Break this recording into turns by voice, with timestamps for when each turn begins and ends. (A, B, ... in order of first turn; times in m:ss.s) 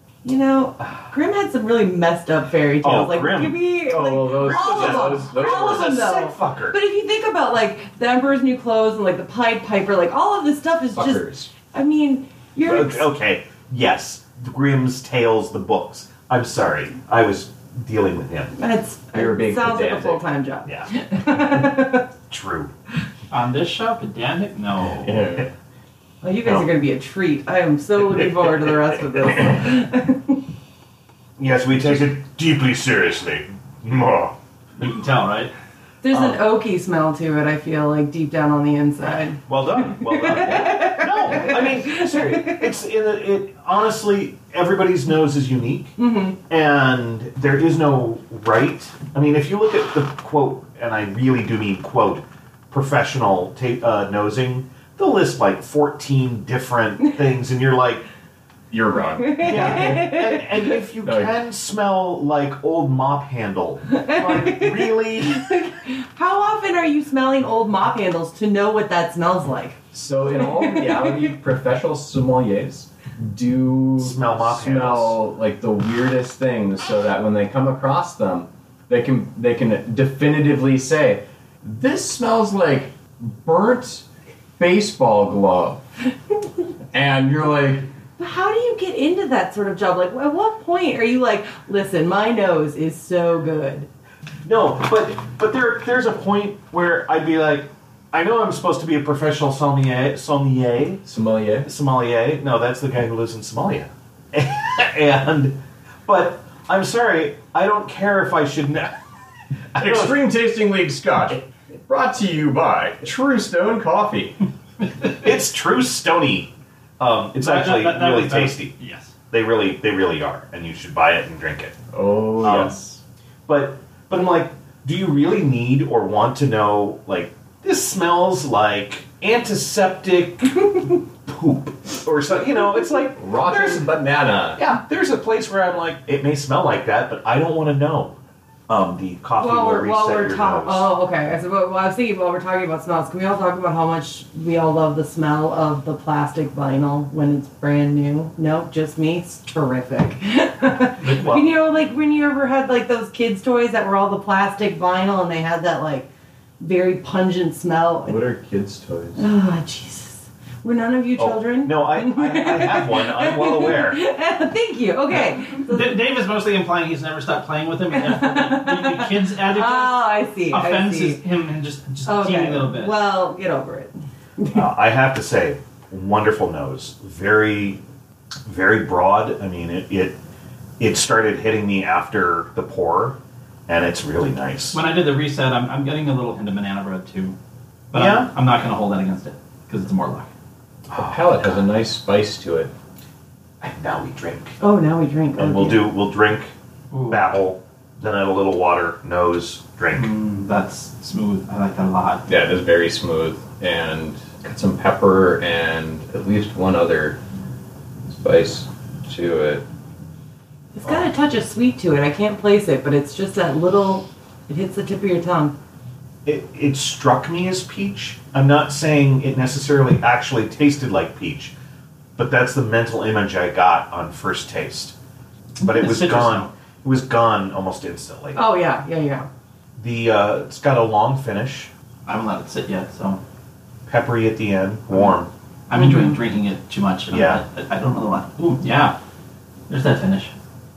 0:00.2-0:13.1 A
0:02.8-0:03.6 B
0:03.8-0:05.9 C
0:04.3-0:06.8 B
0:10.9-0:11.5 C
0:12.6-0:18.5 B
0:18.6-0:22.1 A
0:19.1-0:20.2 C
0:22.3-0:22.7 B
0:23.3-0:25.3 D
0:25.0-0:25.5 C
0:26.2-0:30.4 A
0:31.4-0:34.3 B
0:34.8-0:35.5 D
0:36.0-0:42.6 A
0:36.1-0:36.4 B
0:39.5-0:46.0 B
0:46.0-0:46.4 A
0:46.5-0:58.0 B
0:58.7-1:00.1 C
0:59.2-1:00.5 A
0:59.4-1:05.5 B
1:01.0-1:01.3 C
1:03.9-1:09.8 A
1:09.9-1:24.0 C
1:10.4-1:11.3 A
1:14.0-1:15.2 B
1:24.6-1:25.8 C
1:26.9-1:27.9 C
1:28.2-1:33.9 A
1:34.4-1:41.0 B
1:41.0-1:41.7 C
1:41.6-1:48.9 B
1:49.7-1:50.2 B
1:49.8-1:54.4 C
1:55.2-1:58.7 B
1:57.4-1:59.1 D
1:59.3-2:01.8 B
2:01.9-2:03.0 C
2:02.4-2:02.7 B
2:03.5-2:10.7 B
2:11.2-2:13.9 B
2:13.2-2:14.6 C
2:14.6-2:18.1 B
2:18.7-2:20.9 B
2:19.4-2:36.1 A
2:31.0-2:31.5 B
2:36.6-2:38.2 A
2:38.0-2:39.2 C
2:39.2-2:46.0 A
2:41.2-2:44.0 B
2:45.1-2:53.0 D
2:47.9-2:51.2 A
2:52.0-2:54.6 A
2:54.5-2:57.8 B
2:58.4-3:00.2 B
3:00.8-3:04.8 B
3:04.7-3:07.4 D
3:07.9-3:10.3 D
3:07.9-3:08.3 B
3:10.9-3:11.6 B
3:11.0-3:12.7 C
3:13.6-3:14.6 B
3:14.6-3:15.8 A
3:15.4-3:16.5 B
3:16.9-3:17.2 D
3:17.1-3:20.1 B
3:19.9-3:22.2 D
3:22.3-3:27.2 C
3:28.1-3:29.6 C
3:30.7-3:35.5 A
3:36.2-3:41.5 B
3:42.2-3:44.9 B
3:45.6-3:46.5 D
3:45.6-3:48.4 B
3:48.3-3:49.3 A
3:49.8-3:51.7 B
3:52.0-3:53.2 D
3:53.9-3:55.3 B
3:55.7-3:59.0 D
3:55.7-3:56.2 A
3:57.1-3:57.4 B
3:59.7-4:00.3 D